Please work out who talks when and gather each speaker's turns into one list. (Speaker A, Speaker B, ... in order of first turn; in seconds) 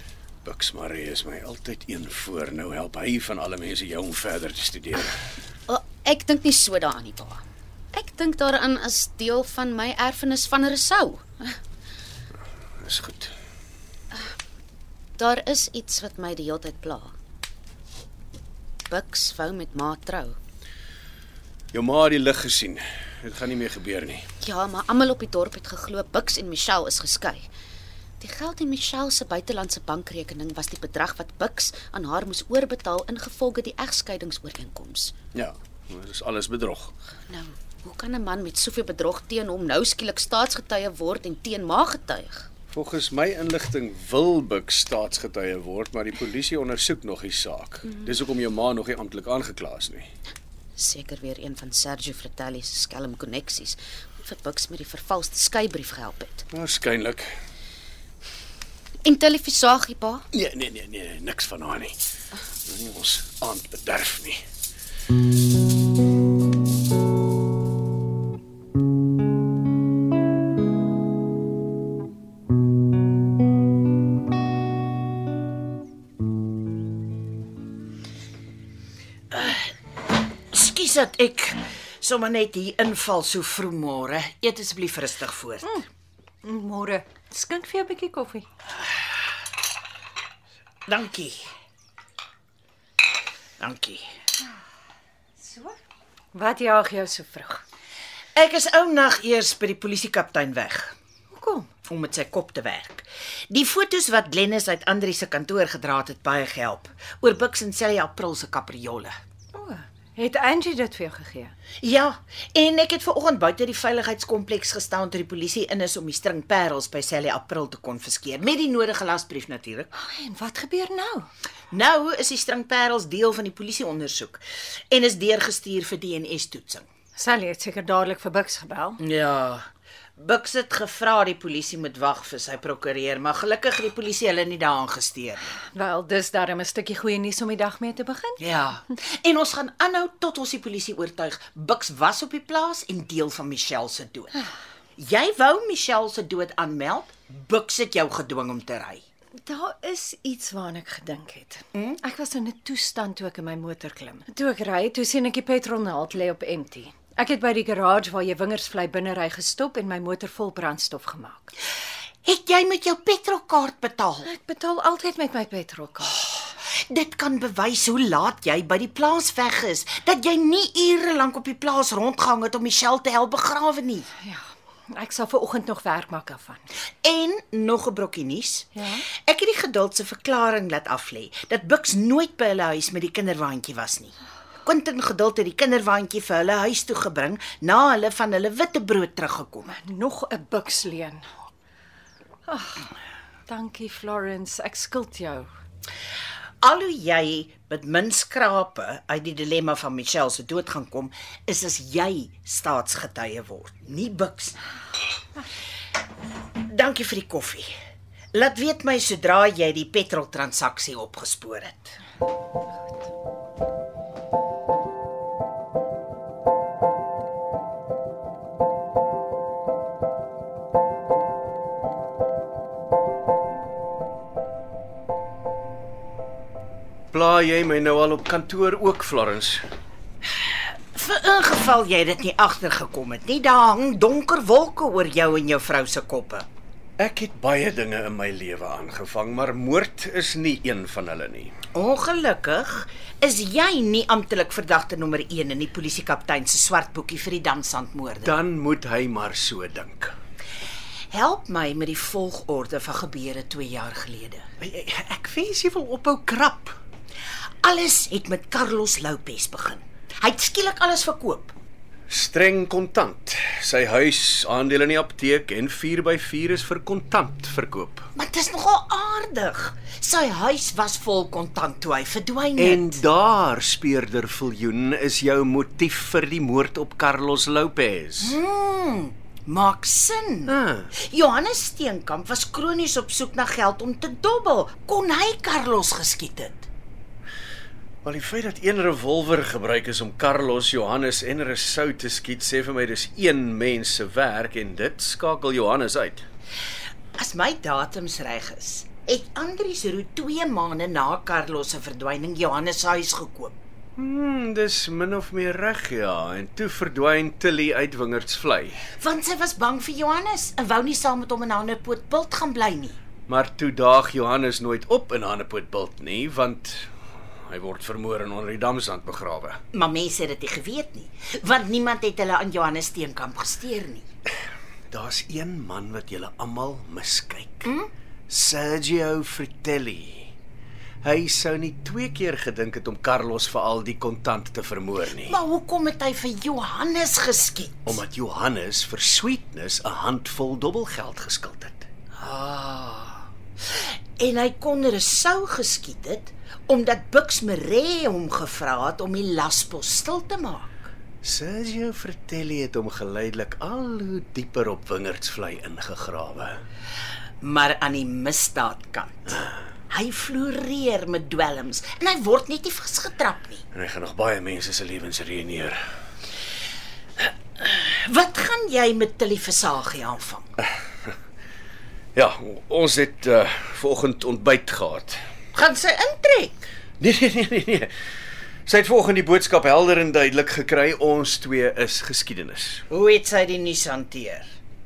Speaker A: 0.4-5.2, 12.8-13.3, 21.7-24.2, 35.3-36.9, 42.7-50.1, 56.5-57.3, 60.3-62.0, 62.6-64.4, 227.1-229.6, 237.0-241.5, 248.2-250.1, 254.6-256.8, 262.1-268.1, 272.6-278.4, 280.5-280.9, 288.0-296.2, 304.0-308.8, 313.3-316.9, 317.5-319.6, 324.9-327.7, 328.3-330.3, 331.0-335.4, 337.9-341.9, 351.2-356.6, 363.7-365.8, 372.1-375.2, 377.0-377.9, 378.6-382.8
Speaker B: 5.7-11.6, 15.2-17.1, 18.9-20.4, 24.4-27.5, 28.2-35.1, 37.3-42.5, 50.8-56.4, 59.0-60.2
Speaker C: 79.3-79.7, 80.5-85.7, 90.9-91.5, 93.6-94.0, 98.3-100.9, 101.8-109.1, 111.8-119.9, 121.7-126.9, 129.0-135.5, 138.4-144.3, 145.0-149.0, 162.2-164.3, 166.7-174.1, 177.0-178.7, 179.2-189.7, 196.6-204.6, 206.7-207.7, 208.3-212.0, 230.5-236.5, 241.7-248.3, 251.1-254.5, 257.6-261.5, 268.1-273.0, 278.2-286.7, 297.1-303.6, 309.0-313.0, 319.7-324.1, 335.2-338.0, 342.2-343.2, 343.8-350.9, 357.4-363.6, 367.6-370.5, 375.5-376.6, 382.9-384.5
Speaker D: 86.4-88.5, 95.4-95.8, 96.3-97.6, 101.3-101.7, 109.5-111.5, 119.9-121.3, 127.2-129.0, 135.7-138.4, 149.4-161.5, 164.2-166.2, 174.2-176.6, 178.7-179.0, 189.7-191.2, 192.5-192.9, 193.5-195.5